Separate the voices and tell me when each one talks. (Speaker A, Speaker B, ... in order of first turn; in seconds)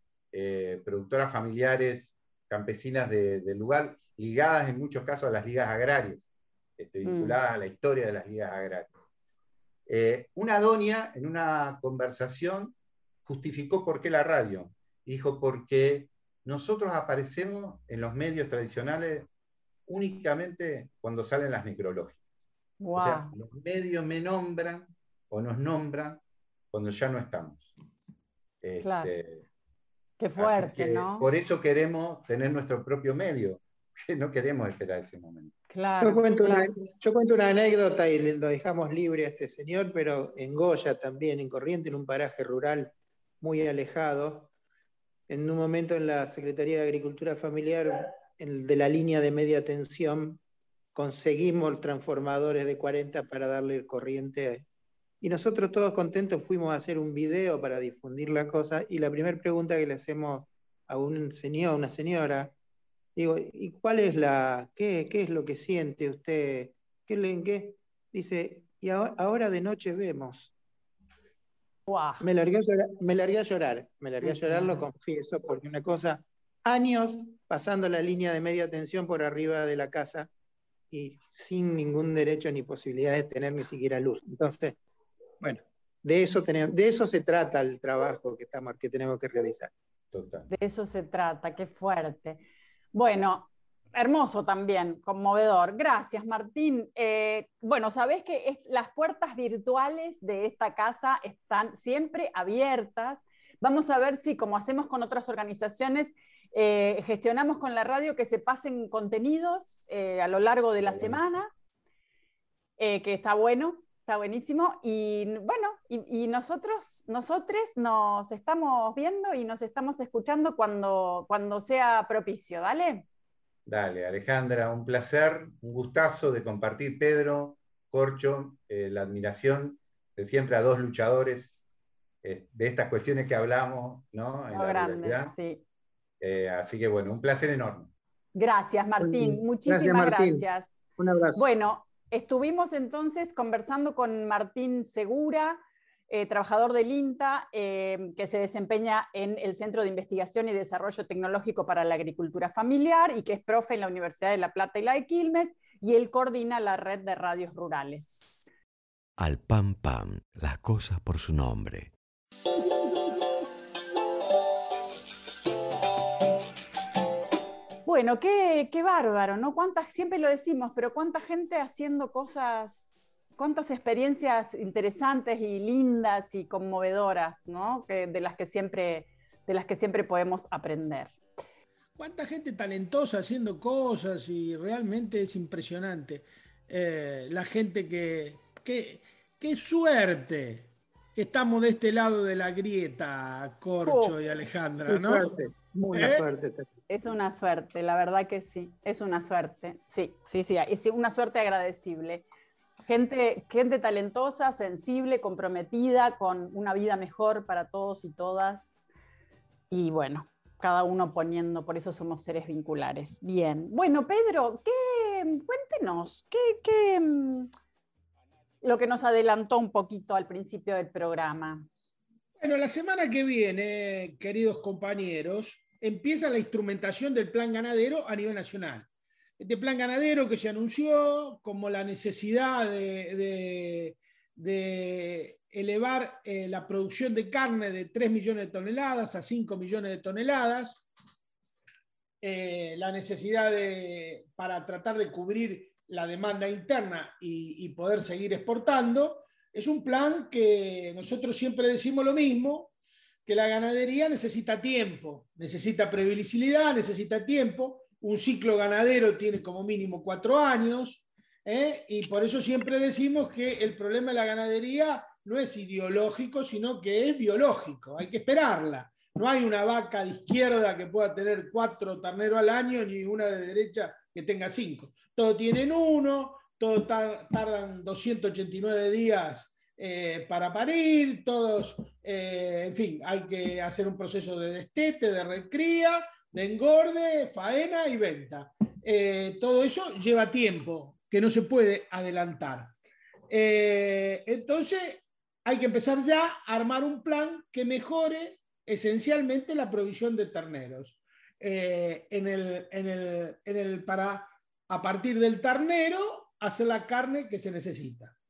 Speaker A: 0.3-9.0, 9.9-19.3, 19.9-22.2, 23.0-26.2, 26.7-27.7, 28.6-29.4, 30.4-35.5, 90.1-90.5, 110.8-111.4, 123.7-131.6, 132.2-135.3, 136.2-137.9
Speaker B: 7.0-7.4, 22.8-23.3, 28.8-29.1, 30.2-31.3, 35.7-36.7, 71.9-72.2, 74.2-74.8, 90.5-92.4, 92.9-111.5, 112.8-123.1, 134.5-135.6, 138.3-140.8, 141.3-158.4, 167.8-181.2, 193.8-194.2, 196.9-202.2, 202.9-208.8, 209.7-217.5, 218.6-221.7
Speaker C: 36.0-44.5, 45.3-50.4, 51.0-54.6, 55.2-62.5, 63.2-70.5, 72.2-80.3, 80.9-84.8, 85.4-89.7, 139.0-140.5, 141.0-141.5, 194.9-196.7
Speaker D: 159.2-161.9
Speaker E: 182.0-195.3, 195.9-196.2, 222.4-228.9, 229.4-240.8, 242.2-252.7, 253.3-292.7, 293.3-308.1